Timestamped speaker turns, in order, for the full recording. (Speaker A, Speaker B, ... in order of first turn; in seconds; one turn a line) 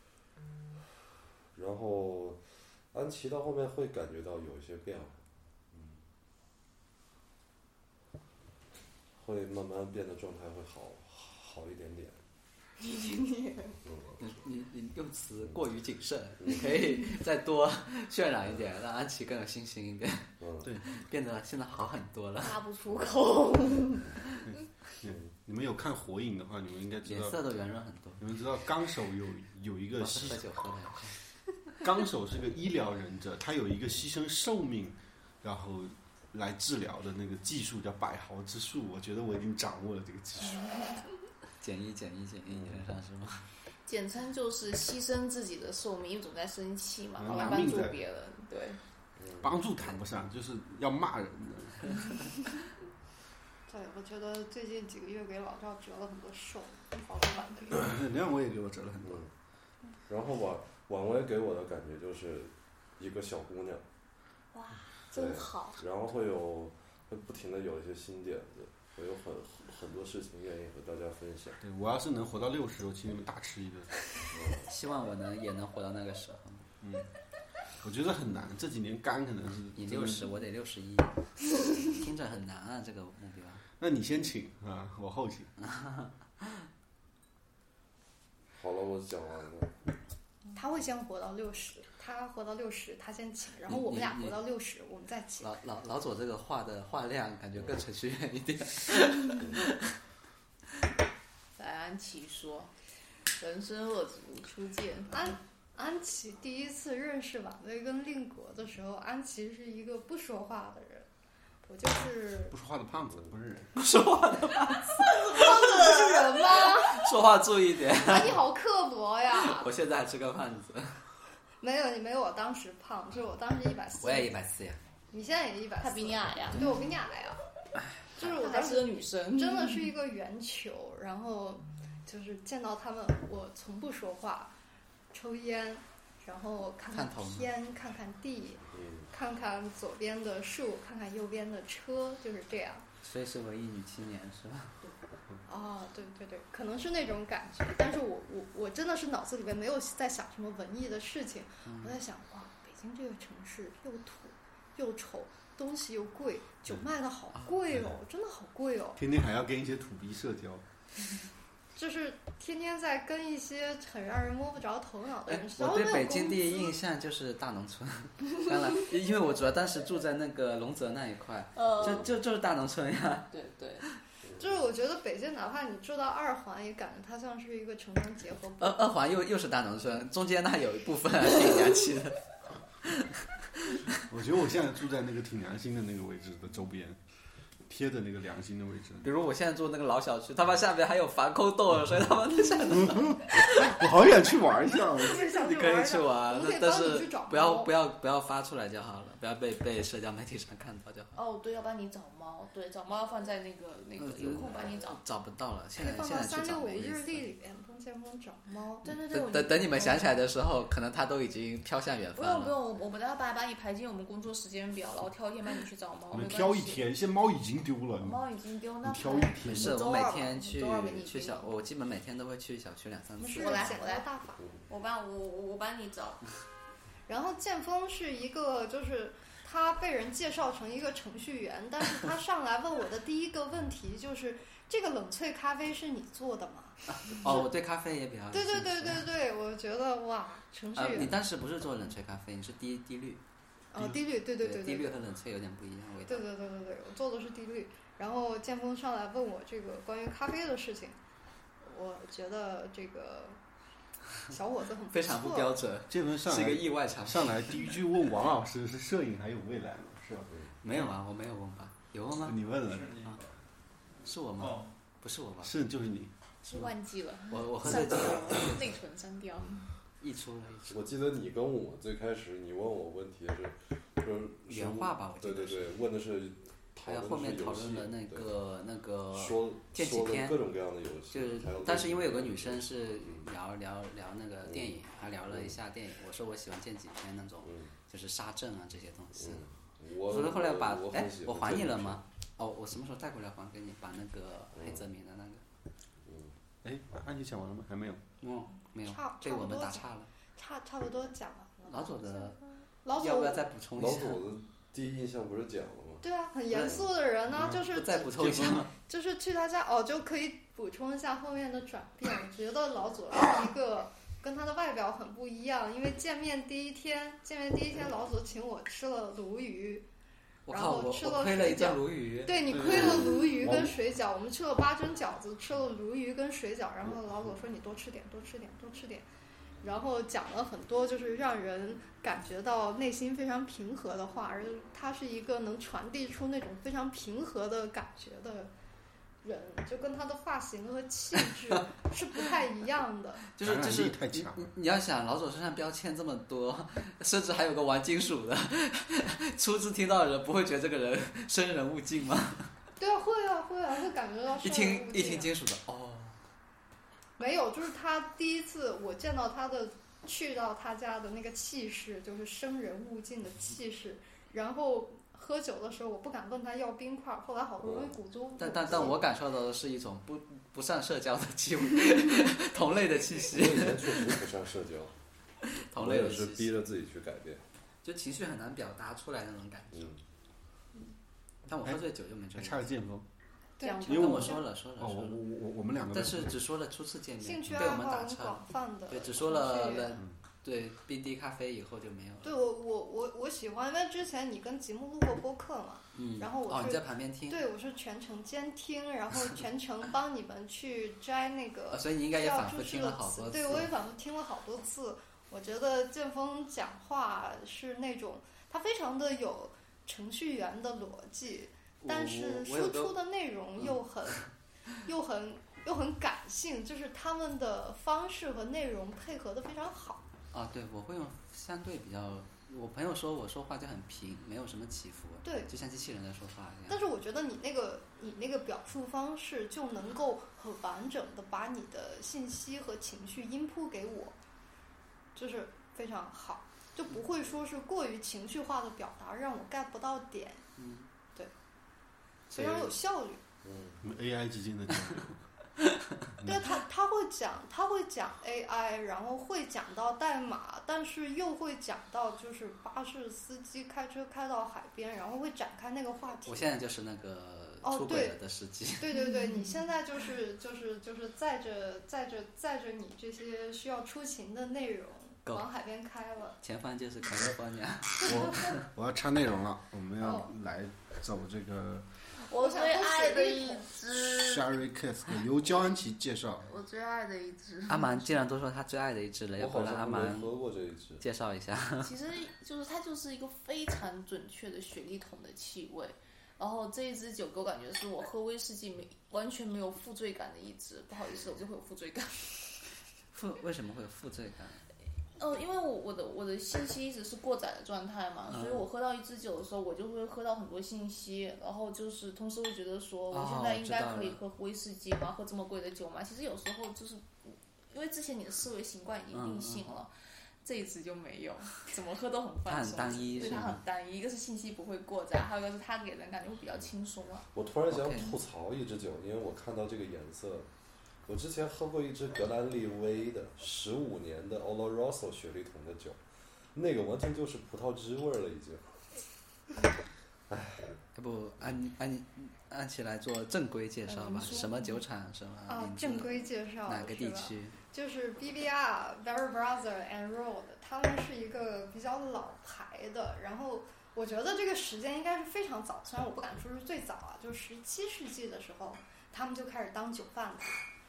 Speaker A: 1.5-5.2
Speaker A: 5.7-6.0
Speaker A: 9.2-12.2
Speaker B: 12.8-13.8
Speaker A: 13.8-14.2
Speaker C: 14.2-20.3
Speaker A: 20.4-20.7
Speaker C: 20.8-22.6
Speaker B: 22.4-24.1
Speaker D: 24.5-27.4
Speaker A: 25.1-25.3
Speaker C: 27.1-28.2
Speaker D: 28.2-30.4
Speaker C: 30.0-31.2
Speaker D: 31.8-40.8
Speaker C: 41.6-43.5
Speaker A: 42.5-42.9
Speaker B: 43.9-48.8
Speaker D: 47.2-48.0
Speaker A: 49.2-49.6
Speaker D: 49.4-52.1
Speaker E: 53.7-57.9
Speaker D: 57.7-59.2
Speaker A: 59.0-59.3
Speaker A: 60.1-63.8
Speaker B: 64.5-65.8
Speaker A: 65.1-71.6
Speaker D: 71.6-73.9
Speaker A: 74.3-74.7
Speaker C: 74.7-76.7
Speaker D: 76.8-77.1
Speaker D: 77.8-80.3
Speaker C: 79.8-81.3
Speaker C: 81.8-83.6
Speaker D: 83.8-85.5
Speaker C: 85.6-86.1
Speaker A: 88.5-89.7
Speaker E: 90.5-95.5
Speaker C: 93.7-94.4
Speaker C: 95.4-99.9
Speaker B: 101.6-102.7
Speaker B: 103.4-105.4
Speaker E: 105.1-111.1
Speaker E: 111.6-112.6
Speaker D: 112.5-113.7
Speaker C: 113.8-118.4
Speaker E: 115.0-117.2
Speaker E: 117.9-119.7
Speaker C: 119.3-121.0
Speaker E: 121.6-124.3
Speaker C: 124.0-124.8
Speaker E: 125.1-127.4
Speaker B: 125.8-126.8
Speaker E: 128.2-134.5
Speaker B: 128.2-129.9
Speaker E: 135.1-142.9
Speaker C: 136.9-137.5
Speaker A: 138.7-139.1
Speaker C: 143.0-144.8
Speaker E: 145.5-159.0
Speaker C: 151.7-151.9
Speaker D: 159.0-160.6
Speaker E: 161.8-166.8
Speaker C: 165.3-173.3
Speaker B: 171.6-172.1
Speaker A: 171.8-172.1
Speaker B: 173.3-173.8
Speaker A: 174.3-174.5
Speaker E: 174.4-178.8
Speaker C: 178.6-182.2
Speaker D: 184.1-187.0
Speaker D: 187.7-189.1
Speaker C: 189.0-193.8
Speaker D: 192.8-195.3
Speaker E: 194.9-197.7
Speaker C: 195.1-201.2
Speaker B: 201.2-205.0
Speaker C: 204.0-207.3
Speaker E: 205.8-208.9
Speaker B: 208.8-210.2
Speaker C: 208.8-212.6
Speaker B: 212.2-216.8
Speaker D: 216.1-218.2
Speaker B: 218.0-221.5
Speaker D: 218.8-219.8
Speaker C: 219.4-223.8
Speaker E: 223.2-224.4
Speaker B: 223.4-224.1
Speaker B: 224.7-226.2
Speaker E: 227.1-237.5
Speaker C: 236.9-239.1
Speaker E: 238.3-241.2
Speaker C: 240.8-243.2
Speaker E: 243.7-245.0
Speaker C: 244.4-246.3
Speaker E: 246.1-251.0
Speaker E: 251.6-253.4
Speaker E: 254.3-255.6
Speaker C: 254.9-257.8
Speaker D: 255.9-260.3
Speaker C: 260.6-262.4
Speaker D: 262.2-263.2
Speaker C: 264.0-265.5
Speaker D: 265.4-266.1
Speaker B: 266.4-269.7
Speaker C: 267.3-268.7
Speaker C: 270.0-270.8
Speaker A: 270.7-278.3
Speaker C: 274.5-275.8
Speaker C: 276.8-280.4
Speaker A: 279.1-283.3
Speaker C: 281.1-289.5
Speaker A: 284.5-285.6
Speaker A: 287.4-287.7
Speaker A: 289.1-292.0
Speaker C: 290.0-295.4
Speaker A: 294.6-294.8
Speaker A: 296.1-296.3
Speaker D: 296.6-298.0
Speaker C: 298.2-300.1
Speaker E: 298.9-303.5
Speaker C: 301.7-302.4
Speaker C: 302.9-304.2
Speaker A: 303.8-306.0
Speaker E: 306.0-319.9
Speaker C: 306.5-308.7
Speaker C: 320.5-323.2
Speaker E: 320.5-329.1
Speaker D: 322.5-323.7
Speaker E: 329.6-338.5
Speaker E: 339.2-343.2
Speaker C: 343.3-352.5
Speaker D: 343.4-344.5
Speaker E: 352.8-355.3
Speaker C: 354.4-356.2
Speaker E: 357.2-369.0
Speaker A: 367.6-368.0
Speaker C: 368.4-374.2
Speaker A: 373.2-374.9
Speaker C: 375.6-376.6
Speaker A: 375.7-377.4
Speaker C: 377.8-379.9
Speaker A: 379.7-380.0
Speaker C: 381.5-382.6
Speaker D: 382.4-383.1
Speaker E: 383.6-384.4
Speaker B: 383.6-384.4
Speaker D: 383.9-386.4
Speaker C: 383.9-385.2
Speaker C: 385.9-392.4
Speaker E: 387.2-390.0
Speaker E: 392.2-414.3
Speaker C: 395.9-397.4
Speaker C: 401.7-403.7
Speaker C: 411.8-413.0
Speaker C: 413.6-414.2
Speaker E: 414.8-420.0
Speaker C: 420.3-426.8
Speaker E: 425.2-425.5
Speaker E: 426.7-434.2
Speaker E: 435.1-440.4
Speaker C: 440.6-440.9
Speaker E: 442.3-443.2
Speaker A: 443.4-443.8
Speaker D: 443.8-445.2
Speaker C: 445.6-445.9
Speaker D: 446.2-446.5
Speaker E: 446.2-456.5
Speaker C: 456.3-458.9
Speaker E: 457.6-458.2
Speaker E: 458.8-466.4
Speaker C: 466.4-468.5
Speaker E: 468.0-468.4
Speaker D: 468.0-471.9
Speaker E: 470.0-470.3
Speaker B: 472.2-474.6
Speaker E: 472.3-473.7
Speaker D: 473.9-476.5
Speaker B: 476.5-478.3
Speaker C: 477.7-480.3
Speaker A: 479.4-481.0
Speaker C: 481.0-481.9
Speaker B: 481.8-492.6
Speaker C: 493.1-494.6
Speaker B: 495.2-509.9
Speaker C: 498.3-498.7
Speaker C: 503.1-504.2
Speaker C: 509.1-509.7
Speaker B: 510.4-517.3
Speaker C: 512.5-513.6
Speaker A: 517.3-520.5
Speaker C: 517.7-518.2
Speaker A: 521.1-526.0
Speaker A: 526.5-528.8
Speaker A: 530.3-530.8
Speaker C: 531.0-537.6
Speaker B: 533.9-534.7
Speaker E: 535.5-550.6